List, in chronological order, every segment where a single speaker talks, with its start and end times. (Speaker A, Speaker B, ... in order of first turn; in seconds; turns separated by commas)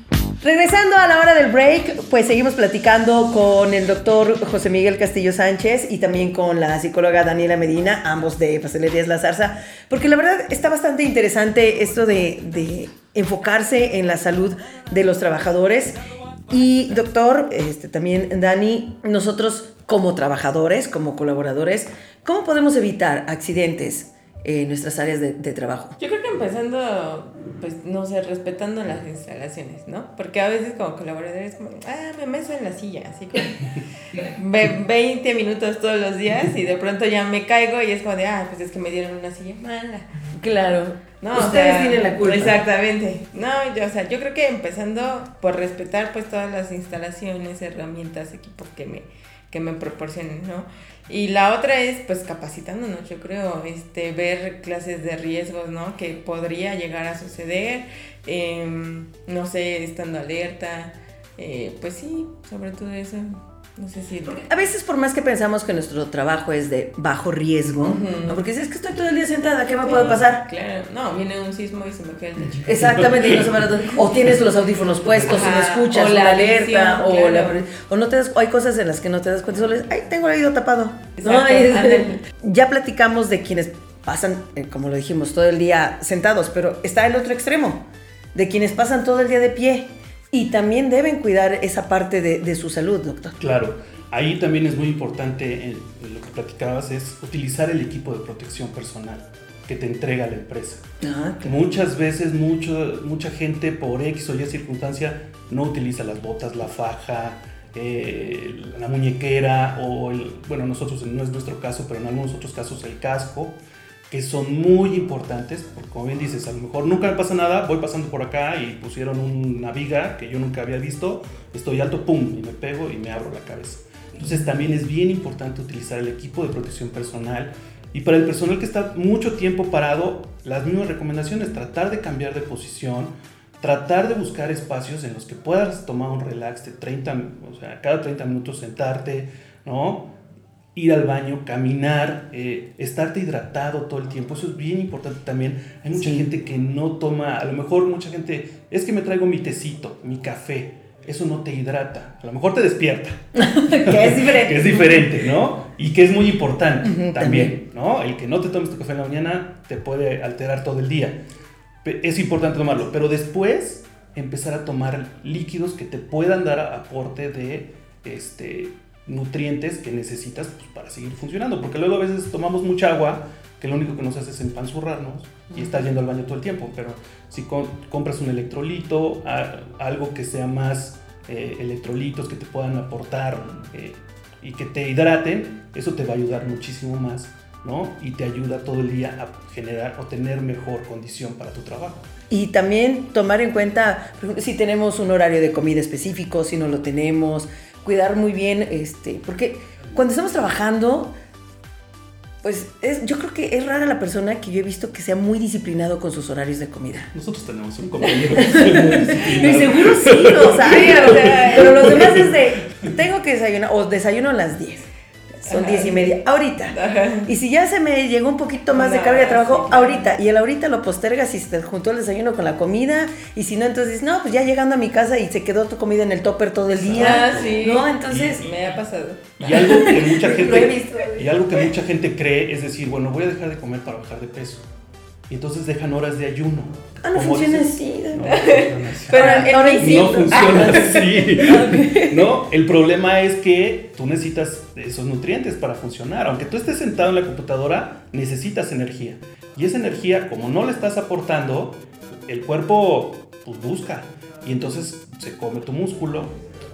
Speaker A: 0.4-16.0, Speaker A: 16.5-26.0, Speaker B: 26.0-40.1, Speaker A: 40.3-42.6, Speaker B: 41.2-64.4, Speaker A: 64.2-70.5, Speaker B: 67.8-68.4, Speaker B: 69.8-73.0, Speaker C: 72.4-73.5, Speaker A: 72.6-93.4, Speaker B: 75.1-77.6, Speaker B: 81.2-82.2, Speaker C: 93.4-100.8, Speaker A: 101.0-101.6, Speaker C: 101.4-113.6, Speaker C: 114.1-140.1, Speaker C: 140.7-161.2, Speaker A: 146.0-146.2, Speaker A: 153.3-155.1, Speaker A: 156.8-157.6, Speaker C: 161.8-192.1, Speaker A: 192.3-201.1, Speaker A: 202.4-207.1, Speaker C: 207.1-212.4, Speaker A: 208.3-214.9, Speaker B: 211.0-211.8, Speaker A: 215.4-228.5, Speaker B: 215.4-217.3, Speaker B: 218.7-220.0, Speaker C: 226.8-228.7, Speaker B: 226.9-230.3, Speaker C: 229.4-234.7, Speaker A: 229.9-231.4, Speaker C: 235.3-256.4, Speaker A: 237.0-240.9, Speaker B: 238.3-242.3